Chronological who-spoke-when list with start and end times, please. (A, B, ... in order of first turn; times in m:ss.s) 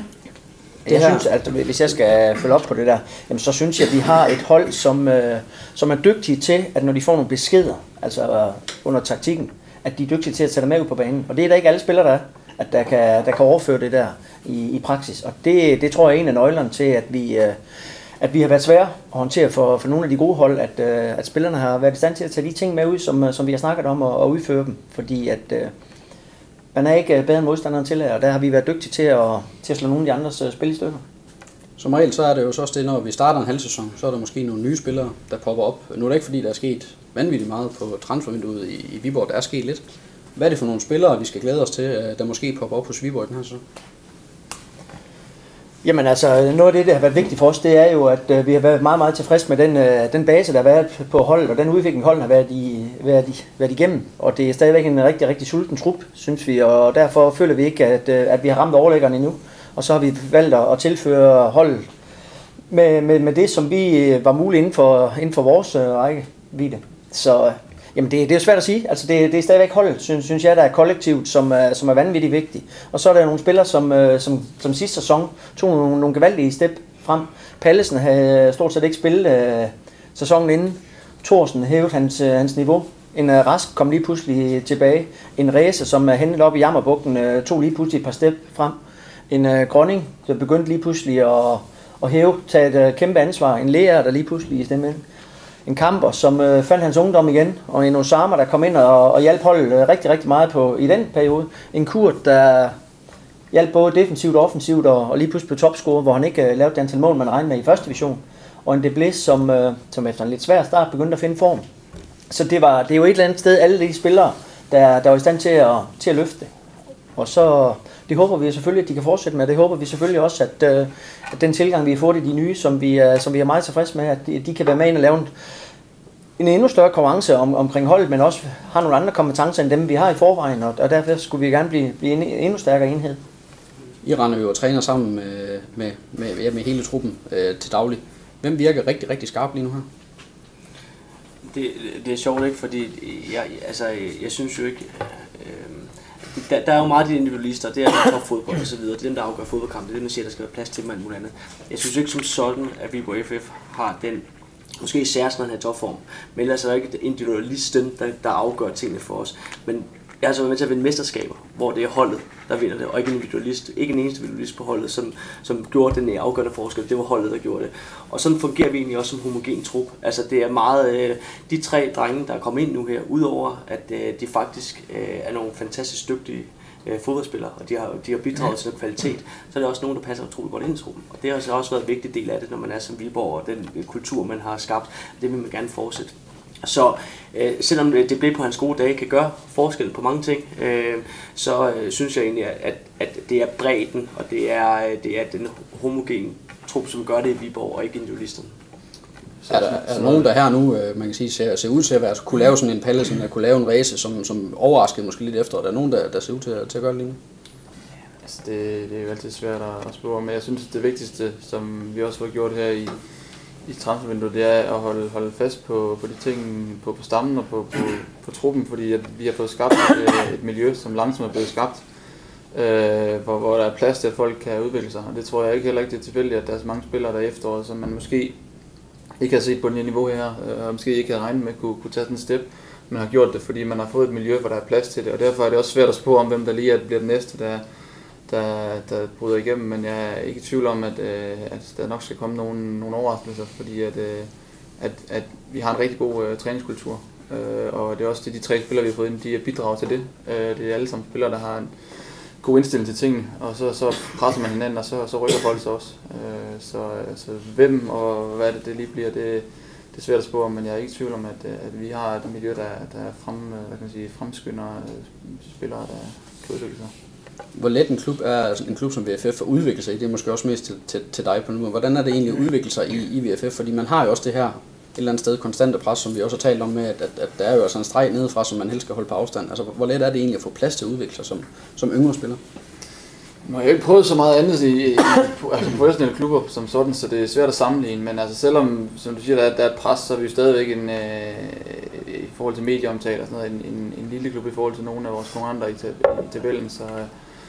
0:00.9-0:17.6 A
0:00.9-0:01.2 B
0:18.2-0:25.7 A
0:26.7-0:31.0 A
0:31.8-0:39.8 C
0:40.4-0:43.6 C
0:45.8-1:01.9 A
1:02.7-1:28.8 A
1:29.3-1:35.0 A
1:35.7-1:42.8 A
1:43.5-1:51.7 A
1:52.3-1:56.5 A
1:57.2-2:05.3 A
2:06.4-2:13.2 A
2:14.0-2:19.9 C
2:21.5-2:34.2 B
2:34.8-3:18.5 B
3:19.4-3:20.2 D
3:19.5-3:27.2 C
3:28.2-3:33.0 D
3:33.6-3:41.9 D
3:42.5-3:48.4 D
3:49.2-3:57.7 D
3:58.2-4:26.9 D
4:27.6-4:42.4 C
4:43.4-4:57.1 D